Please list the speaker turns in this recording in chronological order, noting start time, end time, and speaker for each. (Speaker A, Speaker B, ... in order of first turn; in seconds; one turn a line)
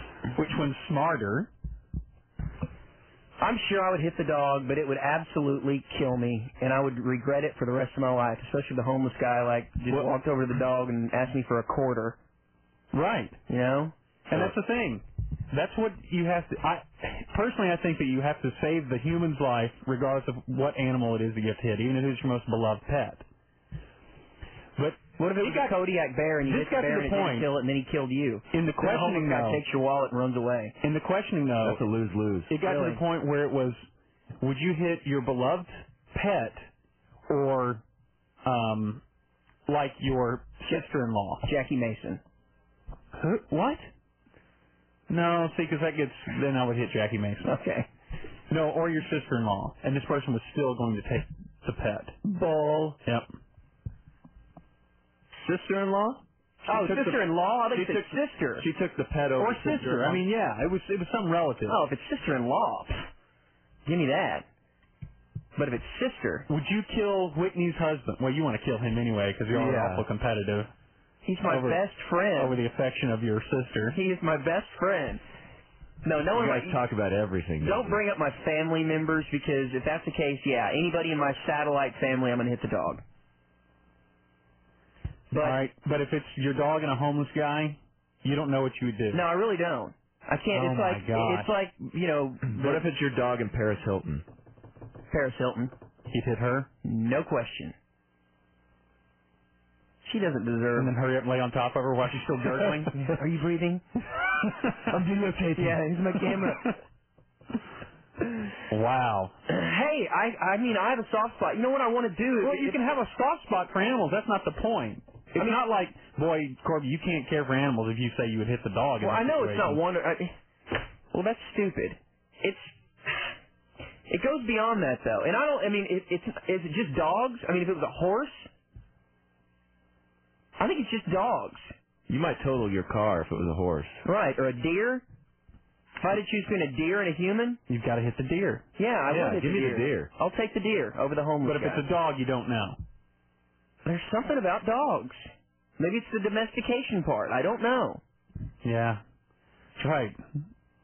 Speaker A: 0.3-1.5
Speaker B: 3.4-12.2
Speaker A: 12.9-13.3
Speaker B: 13.5-13.9
Speaker A: 14.3-23.2
Speaker A: 24.8-25.7
Speaker B: 25.2-30.7
Speaker A: 26.4-27.5
Speaker A: 28.5-29.6
Speaker A: 30.8-31.8
Speaker C: 31.6-32.5
Speaker A: 32.5-33.9
Speaker B: 32.6-33.0
Speaker A: 34.4-36.7
Speaker A: 37.3-37.8
Speaker A: 38.4-39.0
Speaker A: 39.7-41.5
Speaker B: 41.4-42.2
Speaker A: 43.2-43.9
Speaker A: 45.1-47.5
Speaker B: 47.4-47.9
Speaker A: 48.5-52.2
Speaker B: 52.3-53.0
Speaker C: 55.4-56.2
Speaker B: 56.6-58.7
Speaker A: 56.7-57.2
Speaker C: 57.8-58.0
Speaker C: 58.6-60.2
Speaker A: 59.4-61.8
Speaker B: 61.7-63.0
Speaker B: 63.9-64.5
Speaker B: 65.5-66.5
Speaker A: 66.5-70.7
Speaker C: 69.5-70.0
Speaker B: 71.2-72.6
Speaker A: 71.4-71.8
Speaker A: 72.3-74.0
Speaker B: 73.9-75.2
Speaker B: 76.0-76.8
Speaker C: 76.2-78.0
Speaker B: 77.6-83.0
Speaker B: 85.3-85.6
Speaker A: 85.3-89.2
Speaker B: 89.1-92.8
Speaker A: 90.5-91.5
Speaker C: 92.4-94.2
Speaker B: 95.1-95.7
Speaker A: 96.1-96.7
Speaker B: 96.8-97.7
Speaker B: 100.0-100.9
Speaker A: 100.8-102.9
Speaker B: 102.5-103.8
Speaker B: 105.5-106.7
Speaker A: 108.7-109.3
Speaker B: 109.5-112.8
Speaker A: 112.4-119.8
Speaker B: 119.0-120.3
Speaker B: 121.1-122.7
Speaker B: 124.1-128.5
Speaker B: 130.6-131.7
Speaker C: 132.1-134.0
Speaker B: 134.0-135.0
Speaker B: 136.0-137.6
Speaker A: 137.7-138.6
Speaker B: 138.8-141.8
Speaker C: 139.1-140.1
Speaker A: 141.4-142.8
Speaker B: 143.8-145.3
Speaker B: 145.8-148.0
Speaker A: 148.6-149.0
Speaker A: 149.8-150.2